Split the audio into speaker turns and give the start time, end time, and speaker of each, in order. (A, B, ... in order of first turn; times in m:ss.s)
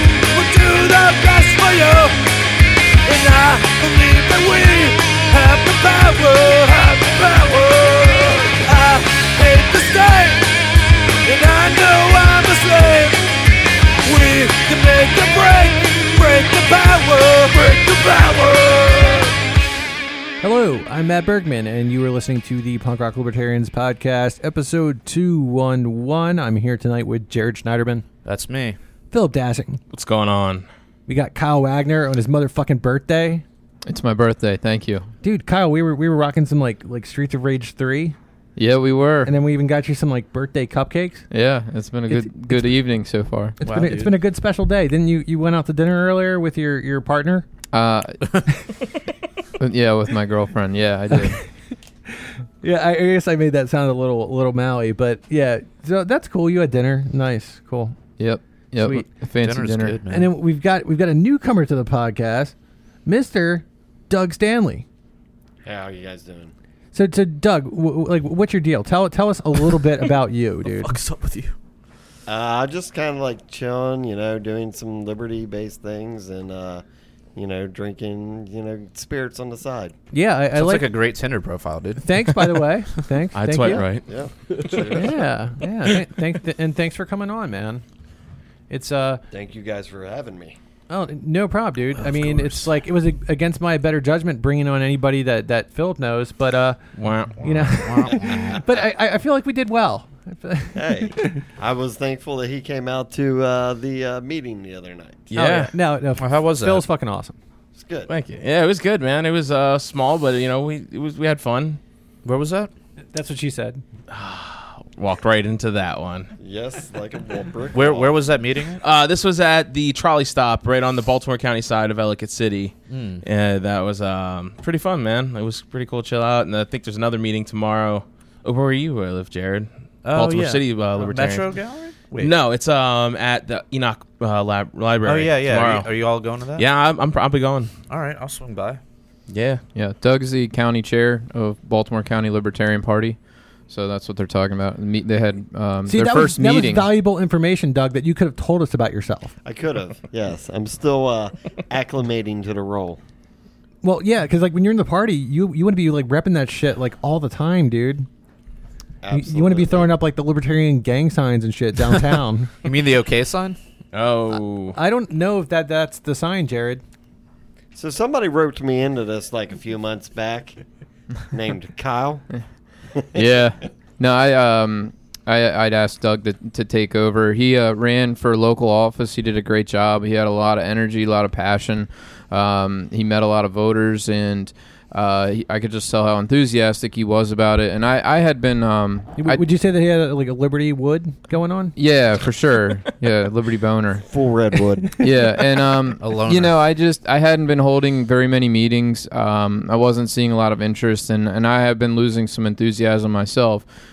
0:00.3-0:02.1 A
0:03.0-0:10.4 A
0:11.2-0:13.2 A
0:14.0-0:19.4 A
0:20.4-0:28.0 B
0:28.2-0:28.8 C
0:29.1-0:29.8 B
0:29.9-0:30.6 D
0:31.1-0:33.4 B
0:33.8-0:35.1 E
0:35.2-0:38.2 B
0:38.6-0:39.3 E
0:39.2-0:41.3 B
0:41.3-0:43.6 E
0:42.1-0:42.3 B
0:43.6-0:44.1 C
0:43.6-0:47.4 B
0:47.7-0:48.2 E
0:49.6-0:51.4 E
0:51.1-0:51.4 B
0:52.1-0:58.0 B
0:58.2-1:00.0 E
0:58.8-0:59.0 B
0:59.4-1:00.3 C
1:00.1-1:02.5 B
1:03.0-1:04.8 B
1:05.6-1:06.5 F
1:06.9-1:11.0 B
1:10.8-1:11.5 C
1:12.3-1:16.8 F
1:17.4-1:19.9 F
1:20.1-1:20.9 B
1:20.5-1:22.3 C
1:22.0-1:23.9 B
1:23.3-1:24.0 D
1:24.0-1:25.2 F
1:24.9-1:27.8 B
1:28.7-1:29.2 B
1:29.3-1:30.6 F
1:30.9-1:36.8 B
1:32.0-1:32.6 C
1:37.0-1:37.4 D
1:37.4-1:41.4 B
1:37.8-1:38.6 C
1:40.7-1:45.3 F
1:45.3-1:45.7 D
1:45.3-1:47.3 B
1:46.2-1:46.8 C
1:47.8-1:48.1 F
1:48.1-1:51.8 D
1:52.2-1:52.7 C
1:53.1-1:53.8 B
1:54.1-1:56.3 D
1:56.4-1:58.3 F
1:57.7-1:58.8 C
1:58.8-2:11.5 D
2:02.9-2:03.2 C
2:10.0-2:12.3 C
2:12.2-2:15.9 D
2:15.0-2:16.6 C
2:16.6-2:17.7 D
2:17.9-2:18.8 C
2:19.3-2:19.6 D
2:19.7-2:23.2 E
2:23.7-2:26.9 E
2:25.9-2:29.3 B
2:29.4-2:33.0 F
2:33.8-2:38.1 B
2:39.0-2:39.9 F
2:39.1-2:42.5 B
2:42.6-2:43.6 C
2:43.9-2:44.8 D
2:44.7-2:46.8 B
2:47.7-2:50.6 F
2:51.3-2:52.3 F
2:53.0-2:53.2 F
2:53.1-3:09.4 E
3:09.2-3:11.7 B
3:11.8-3:14.0 E
3:14.0-3:15.0 F
3:15.0-3:23.6 E
3:16.0-3:16.5 C